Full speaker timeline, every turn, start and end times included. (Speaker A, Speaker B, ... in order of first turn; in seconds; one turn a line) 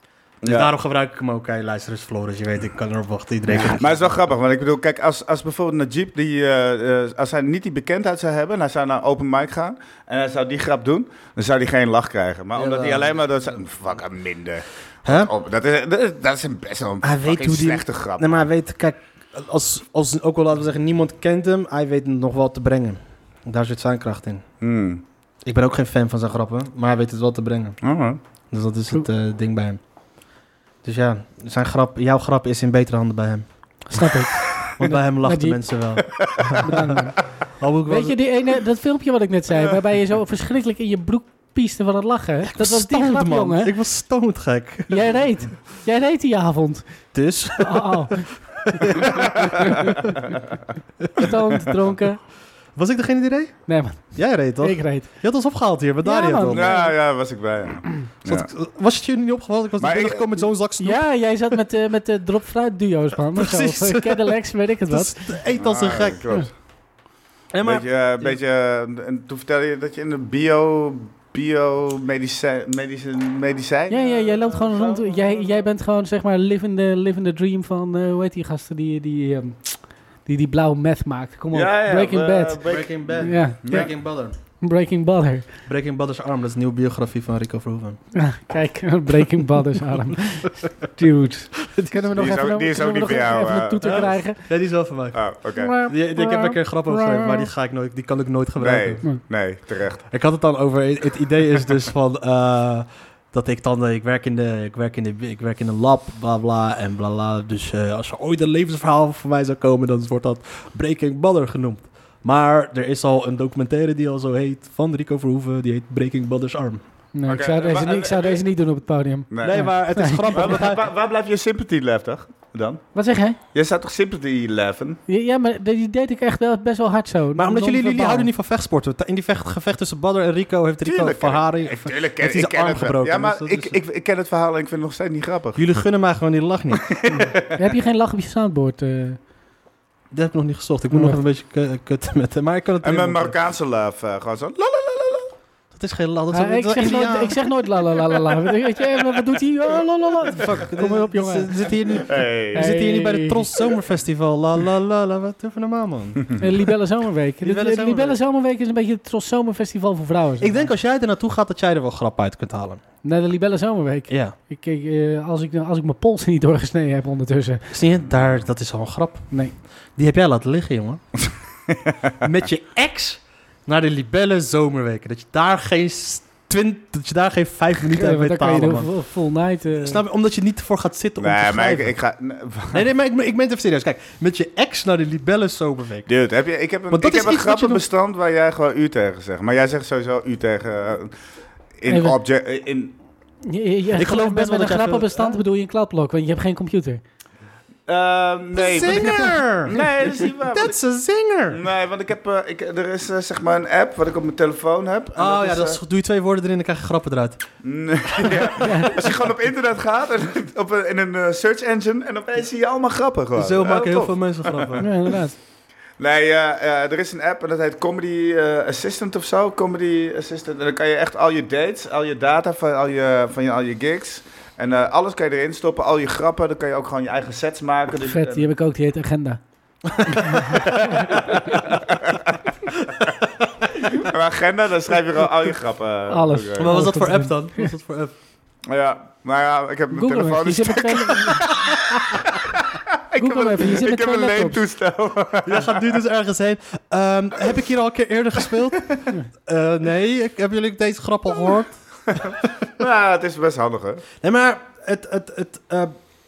Speaker A: 0.4-0.7
Speaker B: 0.4-4.2
Speaker A: 3.5-18.5
Speaker B: 12.6-13.2
Speaker B: 15.1-15.3
Speaker B: 17.0-24.4
Speaker A: 24.6-25.0
Speaker B: 25.4-27.8
Speaker A: 27.8-28.2
Speaker B: 28.5-29.8
Speaker B: 30.8-33.5
Speaker C: 33.9-35.6
Speaker B: 34.6-37.0
Speaker A: 36.1-36.6
Speaker C: 36.6-37.2
Speaker B: 37.6-38.2
Speaker C: 37.9-43.7
Speaker B: 42.5-45.1
Speaker C: 44.9-46.9
Speaker B: 47.1-50.1
Speaker C: 47.6-49.0
Speaker A: 49.1-49.7
Speaker C: 49.6-50.1
Speaker C: 51.1-52.2
Speaker B: 52.8-56.8
Speaker C: 53.7-55.1
Speaker C: 56.0-56.9
Speaker A: 56.5-58.5
Speaker B: 58.2-61.1
Speaker A: 59.8-60.4
Speaker C: 60.8-65.3
Speaker B: 63.4-64.3
Speaker B: 64.9-66.2
Speaker A: 65.5-66.5
Speaker B: 67.5-68.4
Speaker A: 67.6-75.6
Speaker C: 73.9-82.6
Speaker A: 81.5-83.9
Speaker B: 82.7-84.4
Speaker C: 83.2-83.9
Speaker C: 84.6-85.5
Speaker B: 85.7-88.0
Speaker C: 88.1-94.4
Speaker A: 92.1-94.2
Speaker B: 93.9-95.3
Speaker A: 95.1-95.7
Speaker C: 95.6-97.5
Speaker B: 95.8-99.0
Speaker A: 98.6-100.1
Speaker B: 100.1-116.8
Speaker C: 117.2-120.5
Speaker A: 117.3-118.4
Speaker A: 119.3-119.7
Speaker B: 119.4-120.8
Speaker A: 120.3-122.9
Speaker C: 123.0-123.4
Speaker A: 123.5-125.0
Speaker C: 125.1-128.3
Speaker B: 127.4-133.8
Speaker A: 130.8-135.6
Speaker B: 135.6-137.0
Speaker A: 136.7-137.6
Speaker C: 137.1-139.2
Speaker B: 140.1-143.3
Speaker C: 140.9-141.2
Speaker A: 142.8-145.3
Speaker B: 145.7-147.4
Speaker C: 146.3-151.7
Speaker B: 150.2-156.3
Speaker A: 151.9-152.7
Speaker C: 152.5-153.5
Speaker C: 156.4-160.7
Speaker B: 157.4-158.2
Speaker B: 160.4-162.8
Speaker C: 163.0-167.7
Speaker B: 164.1-164.3
Speaker B: 167.7-169.3
Speaker B: 169.9-171.0
Speaker A: 171.7-172.1
Speaker B: 172.2-178.9
Speaker C: 177.8-180.0
Speaker B: 179.8-181.9
Speaker A: 181.2-182.8
Speaker B: 182.7-186.1
Speaker A: 186.1-191.1
Speaker B: 186.9-187.8
Speaker A: 191.8-192.9
Speaker C: 191.9-192.2
Speaker C: 193.4-197.0
Speaker B: 194.0-195.4
Speaker A: 197.9-200.8
Speaker B: 198.5-201.6
Speaker A: 201.5-205.8
Speaker B: 205.2-207.4
Speaker A: 207.6-214.8
Speaker B: 208.2-208.5
Speaker C: 208.6-209.0
Speaker B: 213.3-214.9
Speaker C: 214.8-215.4
Speaker A: 216.0-228.4
Speaker C: 228.0-229.4
Speaker C: 230.1-231.4
Speaker A: 230.5-232.4
Speaker A: 233.8-236.8
Speaker C: 236.1-237.7
Speaker B: 236.6-238.1
Speaker A: 238.7-245.9
Speaker C: 239.9-241.5
Speaker C: 243.2-244.6
Speaker B: 245.4-252.5
Speaker A: 252.1-254.1
Speaker B: 254.2-255.9